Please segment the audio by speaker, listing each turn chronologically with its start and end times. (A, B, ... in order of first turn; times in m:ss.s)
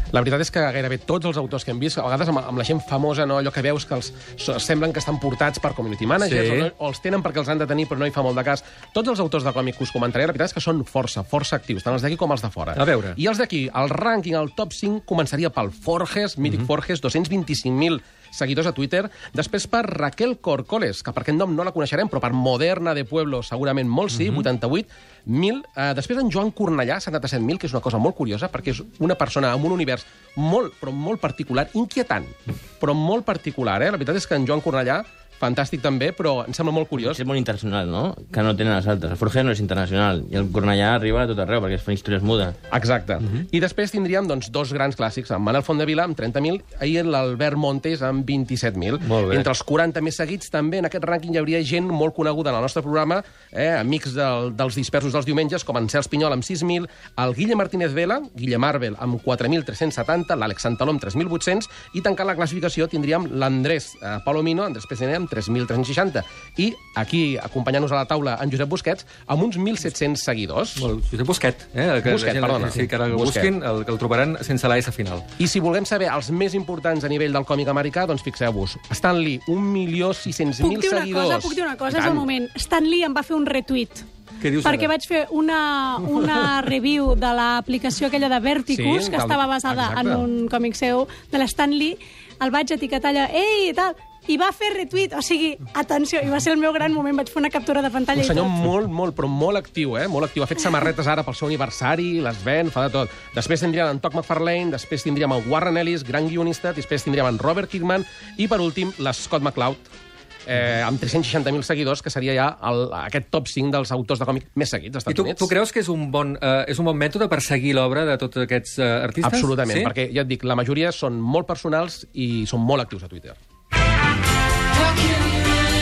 0:00.1-0:37.2 A
0:06.2-0:06.7 B
0:12.7-0:13.2 B
0:24.1-0:24.4 B
0:37.0-0:42.6 C
0:42.7-1:10.9 A
0:49.0-0:49.5 B
1:10.8-1:15.2 B
1:12.0-1:13.5 A
1:15.4-1:22.3 A
1:20.6-1:24.1 D
1:24.4-1:24.9 B
1:24.6-1:38.6 D
1:28.7-1:30.3 A
1:38.2-1:49.9 A
1:50.5-1:55.5 A
1:55.1-1:59.9 B
1:59.2-2:03.4 A